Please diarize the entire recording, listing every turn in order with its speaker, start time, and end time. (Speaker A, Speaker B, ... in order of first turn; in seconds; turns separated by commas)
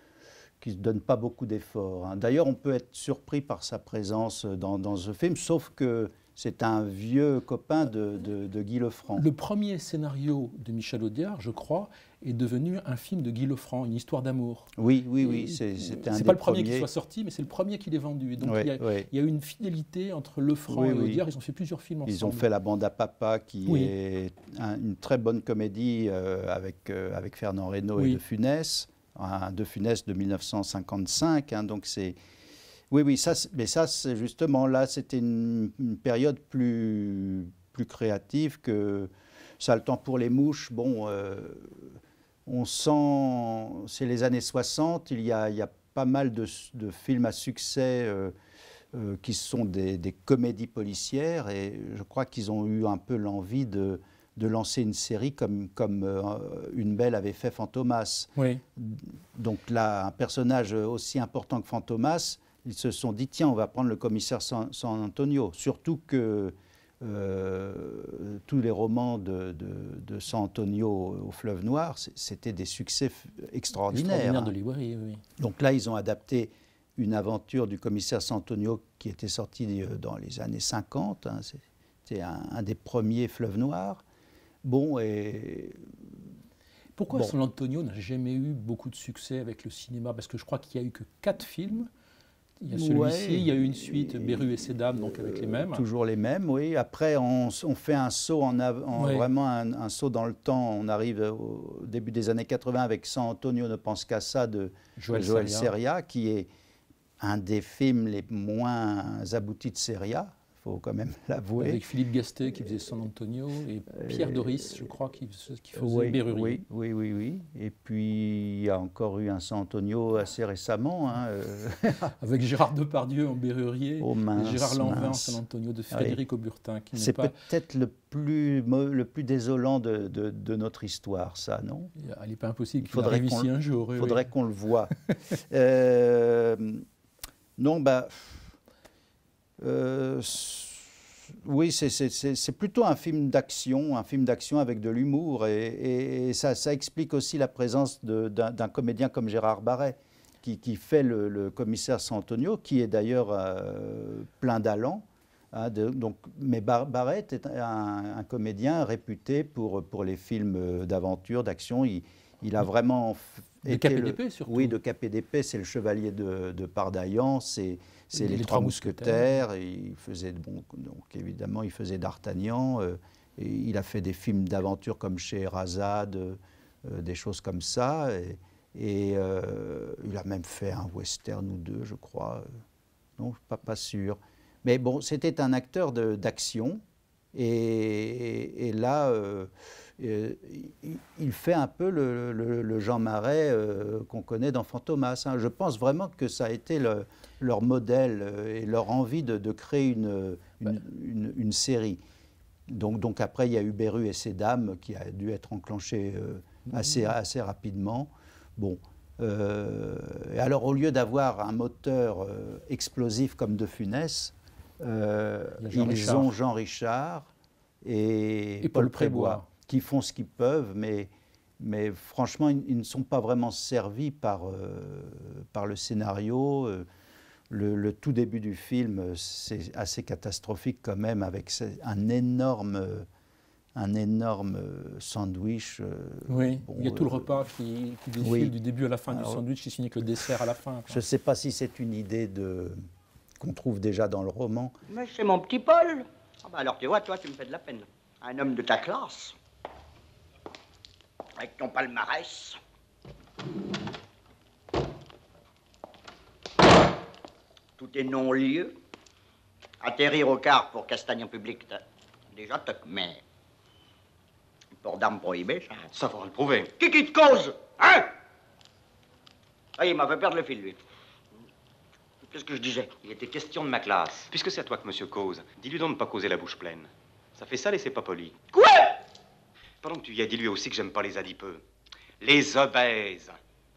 Speaker A: 0.6-9.2, Speaker B: 9.1-14.7, Speaker A: 14.8-16.9, Speaker B: 15.2-22.4, Speaker A: 18.4-19.1, Speaker A: 20.7-21.2, Speaker A: 22.1-32.2, Speaker B: 23.6-23.9, Speaker A: 32.9-48.3, Speaker A: 48.9-74.5, Speaker B: 58.4-58.6, Speaker B: 73.9-75.2, Speaker A: 75.4-84.0, Speaker A: 84.6-85.8, Speaker B: 87.0-91.9, Speaker B: 92.6-95.8, Speaker A: 92.7-106.5, Speaker B: 98.9-99.2, Speaker B: 105.0-105.7, Speaker A: 107.2-111.8, Speaker B: 111.6-116.6, Speaker A: 112.5-112.9, Speaker A: 113.9-114.9, Speaker A: 115.7-122.1, Speaker B: 122.2-127.3, Speaker A: 124.0-125.4, Speaker A: 125.9-126.2, Speaker A: 126.9-131.9, Speaker B: 132.0-134.3, Speaker A: 132.8-134.9, Speaker A: 135.5-136.8, Speaker A: 137.6-138.5, Speaker A: 139.6-182.5, Speaker B: 163.7-164.8, Speaker B: 168.1-169.3, Speaker A: 183.2-186.8, Speaker A: 187.3-202.0, Speaker A: 202.7-217.3, Speaker B: 215.6-216.3, Speaker A: 217.8-226.9, Speaker B: 218.6-219.5, Speaker A: 227.5-233.1, Speaker A: 233.7-237.4, Speaker B: 236.3-241.0, Speaker A: 238.2-238.5, Speaker A: 239.1-239.4, Speaker A: 240.9-242.8, Speaker A: 243.4-244.7, Speaker C: 244.9-249.3, Speaker C: 251.4-252.6, Speaker C: 257.8-258.8, Speaker C: 259.8-263.2, Speaker C: 264.8-265.9, Speaker D: 265.9-266.7, Speaker C: 266.8-268.1, Speaker C: 269.8-270.8, Speaker C: 272.3-273.1, Speaker D: 273.1-278.5, Speaker D: 279.8-281.6, Speaker D: 282.2-283.4